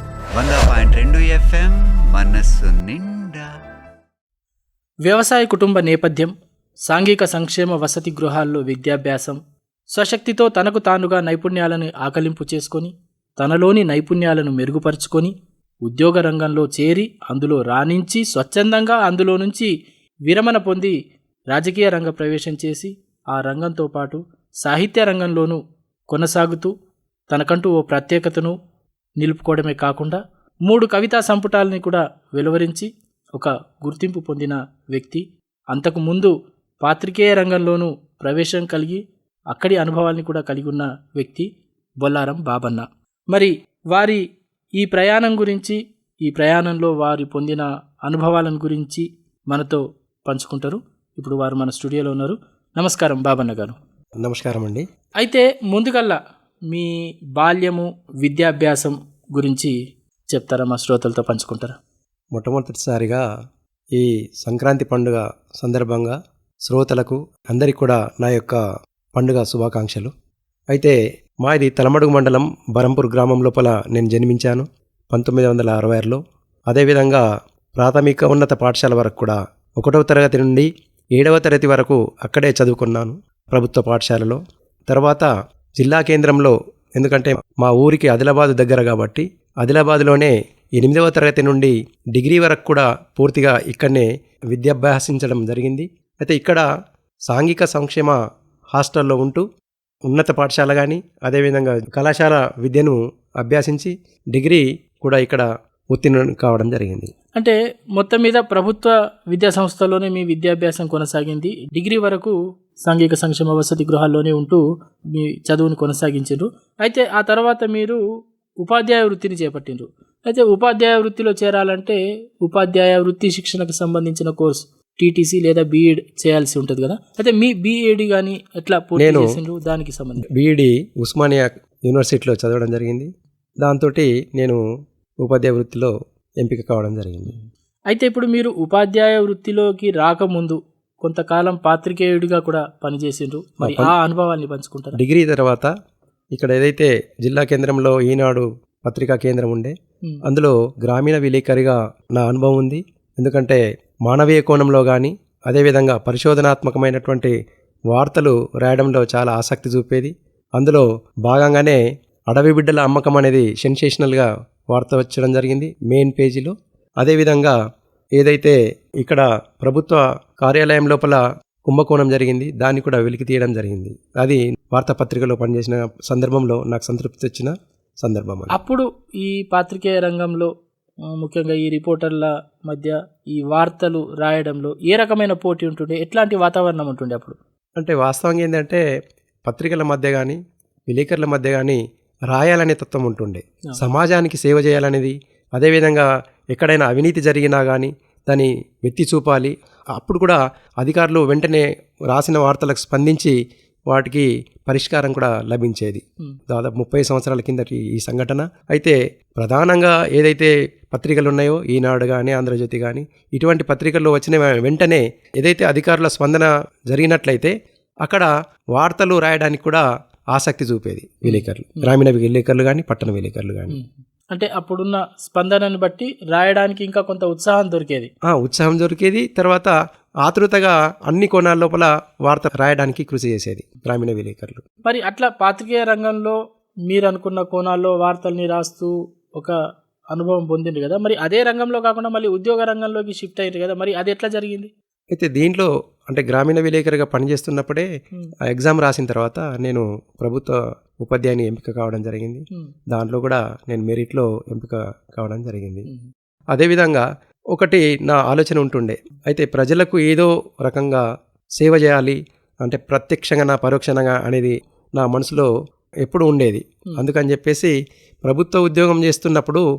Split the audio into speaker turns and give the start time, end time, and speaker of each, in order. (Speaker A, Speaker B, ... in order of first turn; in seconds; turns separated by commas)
Speaker A: 0.3-3.5, Speaker B: 5.1-6.3, Speaker B: 6.9-9.4, Speaker B: 9.9-15.3, Speaker B: 15.9-19.7, Speaker B: 20.3-20.9, Speaker B: 21.5-25.6, Speaker B: 26.1-26.7, Speaker B: 27.3-28.5, Speaker B: 29.2-36.3, Speaker B: 36.8-39.0, Speaker B: 39.5-41.5, Speaker B: 42.0-44.2, Speaker B: 44.8-53.8, Speaker C: 54.2-54.8, Speaker B: 55.2-56.2, Speaker B: 56.7-59.7, Speaker B: 60.3-61.8, Speaker C: 62.4-63.2, Speaker C: 64.0-66.1, Speaker C: 66.7-68.6, Speaker C: 69.2-70.1, Speaker C: 70.7-77.2, Speaker C: 77.8-96.7, Speaker C: 97.3-98.2, Speaker C: 98.8-99.4, Speaker C: 100.1-107.1, Speaker B: 107.4-114.6, Speaker B: 115.2-118.0, Speaker B: 118.6-130.3, Speaker C: 129.0-129.3, Speaker C: 130.4-133.1, Speaker C: 133.6-134.6, Speaker C: 135.2-137.4, Speaker B: 137.9-145.0, Speaker C: 143.6-143.9, Speaker C: 145.0-145.7, Speaker C: 146.3-149.7, Speaker C: 150.3-157.3, Speaker C: 157.9-161.8, Speaker C: 162.3-167.5, Speaker C: 168.2-178.6, Speaker B: 178.5-180.5, Speaker B: 181.2-187.3, Speaker C: 187.8-188.8, Speaker C: 189.5-190.4, Speaker C: 190.9-191.8, Speaker C: 192.3-203.3, Speaker C: 203.9-217.5, Speaker C: 218.0-219.8, Speaker C: 220.3-223.8, Speaker B: 221.2-221.9, Speaker B: 223.7-228.1, Speaker C: 228.3-229.7, Speaker C: 230.2-234.6, Speaker B: 234.8-236.3, Speaker B: 236.9-239.6, Speaker B: 240.1-244.7, Speaker C: 245.1-247.9, Speaker C: 248.5-255.9, Speaker C: 256.5-261.0, Speaker C: 261.6-265.5, Speaker C: 266.1-267.7, Speaker C: 268.2-269.6